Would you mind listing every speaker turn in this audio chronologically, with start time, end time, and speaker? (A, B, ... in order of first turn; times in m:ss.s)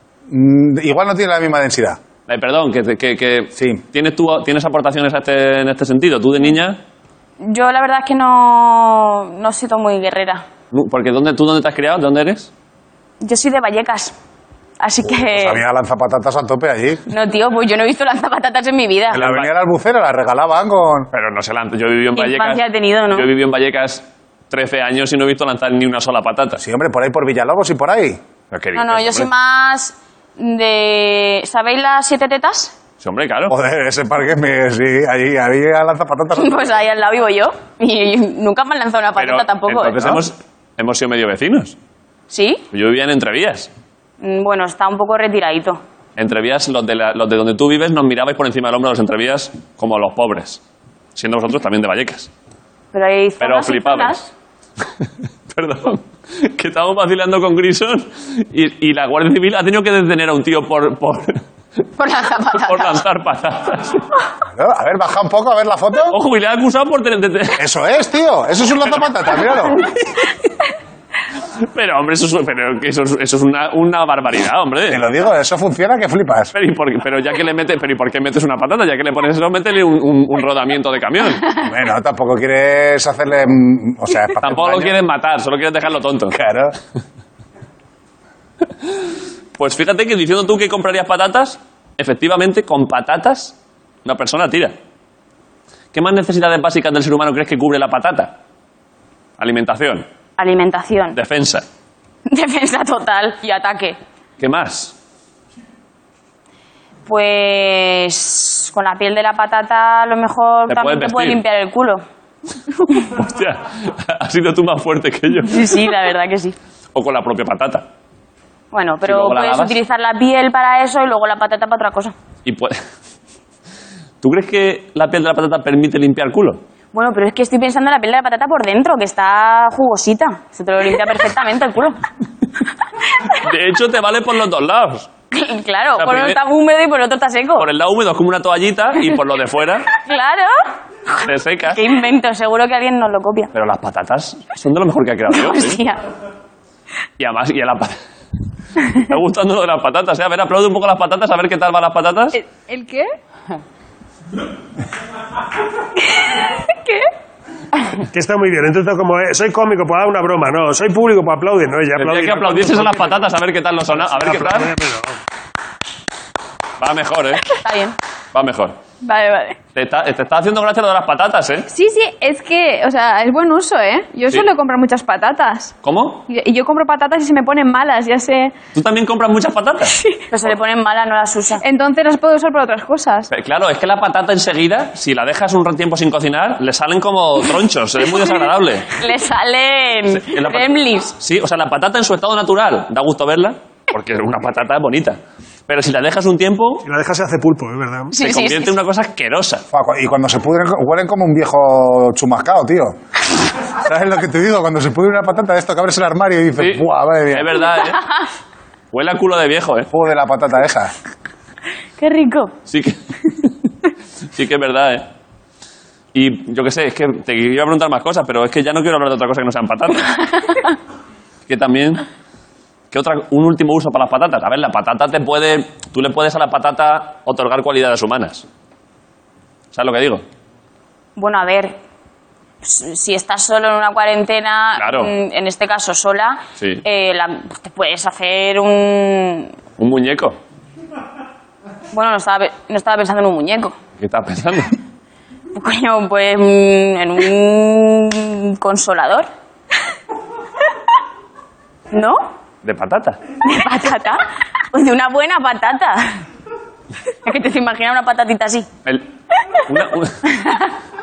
0:00.3-0:02.0 A
0:02.3-0:06.8 B
0:03.6-0:03.8 A
0:07.4-0:10.4 C
0:10.7-0:12.5 B
0:13.2-0:14.1 C
0:14.8-0:15.6 C
0:15.0-0:17.0 A
0:17.1-0:19.2 C
0:19.1-0:21.1 A
0:19.2-0:19.5 B
0:21.1-0:26.6 B
0:22.2-0:23.3 C
0:26.6-0:28.2 A
0:28.5-0:29.3 B
0:28.7-0:32.8 C
0:33.0-0:33.5 B
0:33.5-0:36.7 A
0:36.4-0:40.2 C
0:39.2-0:41.8 B
0:42.3-0:42.6 C
0:42.7-0:43.7 B
0:44.2-0:45.8 C
0:46.2-0:50.6 B
0:51.2-0:52.3 B
0:52.9-0:54.3 C
0:53.4-0:54.1 B
0:55.0-1:01.4 B
1:02.0-1:03.0 C
1:02.5-1:04.0 B
1:04.4-1:06.2 A
1:06.1-1:07.6 B
1:07.6-1:09.8 A
1:09.7-1:10.3 C
1:11.7-1:15.0 B
1:14.9-1:16.5 A
1:16.5-1:21.4 B
1:21.6-1:25.0 A
1:24.4-1:26.4 B
1:26.3-1:26.8 A
1:29.6-1:34.7 B
1:35.9-1:38.3 B
1:39.4-1:40.0 B
1:40.4-1:41.2 C
1:41.1-1:41.6 B
1:42.3-1:44.0 C
1:44.4-1:44.9 B
1:47.0-1:52.0 C
1:50.7-1:51.4 B
1:52.9-1:55.7 B
1:55.4-1:56.6 C
1:56.9-1:57.9 B
1:58.7-2:02.1 C
1:59.0-1:59.8 B
2:02.4-2:02.8 B
2:04.2-2:06.6 B
2:06.9-2:12.0 C
2:13.3-2:15.1 B
2:15.3-2:17.7 C
2:16.0-2:16.4 B
2:17.6-2:19.9 B
2:19.9-2:20.6 C
2:21.1-2:23.5 C
2:21.2-2:21.8 B
2:23.5-2:25.8 B
2:25.3-2:26.0 C
2:27.2-2:28.0 B
2:28.8-2:32.4 B
2:32.4-2:33.1 D
2:38.1-2:43.2 E
2:42.0-2:44.7 B
2:44.0-2:45.2 E
2:46.8-2:47.5 B
2:47.4-2:48.0 C
2:48.3-2:48.8 B
2:49.0-2:49.6 C
2:49.7-2:51.7 B
2:51.7-2:55.7 D
2:55.8-2:56.2 B
2:56.3-2:58.5 D
2:58.7-3:00.0 B
3:00.3-3:01.6 C
3:01.6-3:03.3 D
3:03.3-3:09.0 B
3:08.9-3:11.2 C
3:10.1-3:16.8 B
3:16.8-3:18.1 E
3:18.1-3:18.8 C
3:18.2-3:19.6 B
3:19.7-3:23.0 A
3:23.8-3:27.6 A
3:26.6-3:28.0 B
3:28.9-3:29.9 B
3:29.9-3:30.9 A
3:32.0-3:32.5 C
3:32.7-3:33.5 B
3:34.3-3:35.1 B
3:36.1-3:40.2 B
3:41.5-3:42.0 B
3:42.9-3:48.4 B
3:49.7-3:50.2 B
3:51.2-3:51.8 C
3:52.6-3:59.5 C
3:54.8-3:55.1 B
3:56.6-3:56.8 B
3:59.8-4:00.4 B
4:01.9-4:03.7 C
4:04.0-4:04.7 B
4:05.5-4:09.3 C
4:11.9-4:12.3 C
4:12.6-4:13.2 B
4:13.4-4:16.2 C
4:17.2-4:18.7 C
4:19.6-4:20.2 B
4:20.2-4:20.7 C